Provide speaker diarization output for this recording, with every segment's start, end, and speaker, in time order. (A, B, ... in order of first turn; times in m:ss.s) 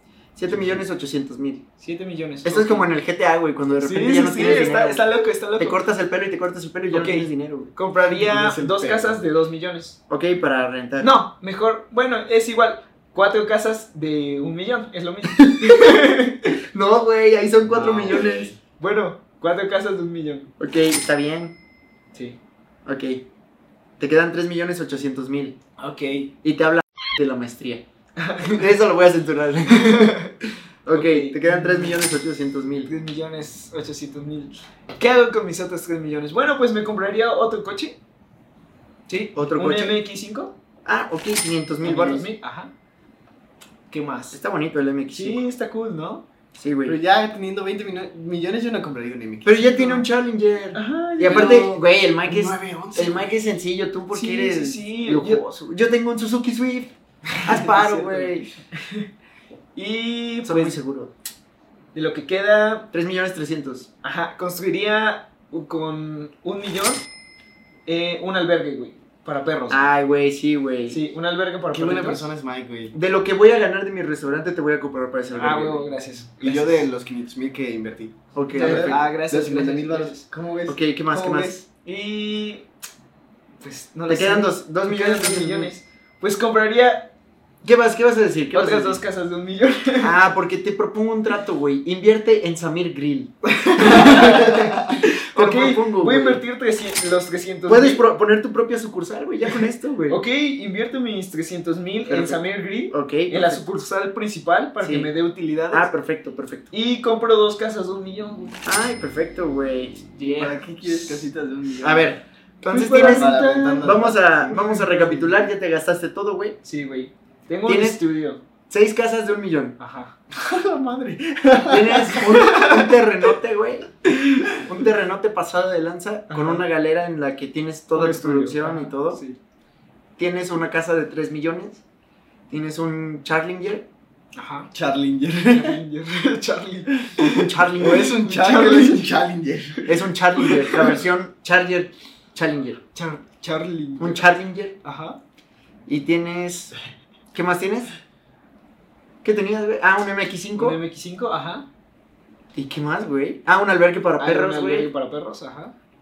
0:00.4-0:01.6 A
0:00.5-0:00.8 B
0:01.8-0:02.9 C
0:02.4-0:05.0 A
0:03.7-0:05.8 C
0:05.6-0:07.7 A
0:06.9-0:10.0 C
0:08.1-0:09.2 B
0:10.1-0:11.1 A
0:11.0-0:16.6 C
0:15.3-0:16.0 A
0:16.7-0:18.5 A
0:17.7-0:18.6 B
0:17.7-0:20.5 C
0:20.6-0:21.6 A
0:22.9-0:23.2 A
0:24.0-0:25.6 A
0:25.8-0:26.3 C
0:26.4-0:27.8 A
0:28.2-0:28.7 C
0:28.4-0:30.2 A
0:29.7-0:32.0 C
0:30.8-0:32.9 A
0:32.9-0:38.0 C
0:39.1-0:40.5 C
0:39.4-0:40.0 A
0:40.8-0:42.3 A
0:41.8-0:42.7 C
0:43.9-0:44.4 C
0:44.3-0:45.4 A
0:45.1-0:46.3 C
0:46.5-0:47.0 A
0:46.9-0:49.9 B
0:49.4-0:58.5 A
0:50.7-0:51.7 C
0:51.2-0:53.3 B
0:54.1-0:55.6 C
0:57.3-0:59.1 C
0:59.8-1:00.8 C
1:00.4-1:01.1 A
1:01.9-1:02.9 C
1:02.9-1:03.9 A
1:04.0-1:07.1 C
1:07.9-1:09.9 C
1:09.7-1:11.0 A
1:10.9-1:12.3 C
1:11.7-1:12.9 B
1:12.9-1:15.9 A
1:15.3-1:16.9 C
1:16.4-1:21.6 B
1:18.4-1:19.1 A
1:18.5-1:20.2 C
1:20.7-1:21.6 A
1:21.8-1:22.7 C
1:23.6-1:27.1 C
1:24.1-1:25.7 A
1:27.6-1:29.0 A
1:28.5-1:30.1 C
1:30.0-1:36.4 A
1:33.4-1:38.0 C
1:37.7-1:40.2 A
1:40.1-1:45.9 C
1:42.1-1:43.6 A
1:44.8-1:45.1 A
1:45.7-1:46.7 A
1:46.7-1:48.6 C
1:48.6-1:50.1 A
1:50.1-1:51.2 C
1:50.4-1:52.2 B
1:51.8-1:56.6 A
1:52.7-1:55.4 C
1:52.9-1:55.3 B
1:56.6-1:58.4 C
1:57.6-1:58.0 A
1:58.7-1:59.8 A
1:59.8-2:03.0 C
2:01.7-2:03.9 A
2:04.1-2:04.7 C
2:04.5-2:09.2 A
2:06.3-2:06.6 C
2:07.9-2:09.4 C
2:10.2-2:11.8 A
2:12.5-2:13.9 A
2:14.4-2:14.7 C
2:14.7-2:15.8 B
2:15.5-2:19.1 C
2:17.2-2:18.1 A
2:17.8-2:19.8 B
2:19.8-2:21.0 C
2:19.9-2:22.8 A
2:22.9-2:24.2 C
2:24.0-2:24.8 A
2:24.8-2:25.2 C
2:25.9-2:26.7 A
2:27.3-2:27.9 A
2:29.2-2:30.8 A
2:30.6-2:31.6 C
2:32.5-2:34.9 A
2:34.2-2:35.7 C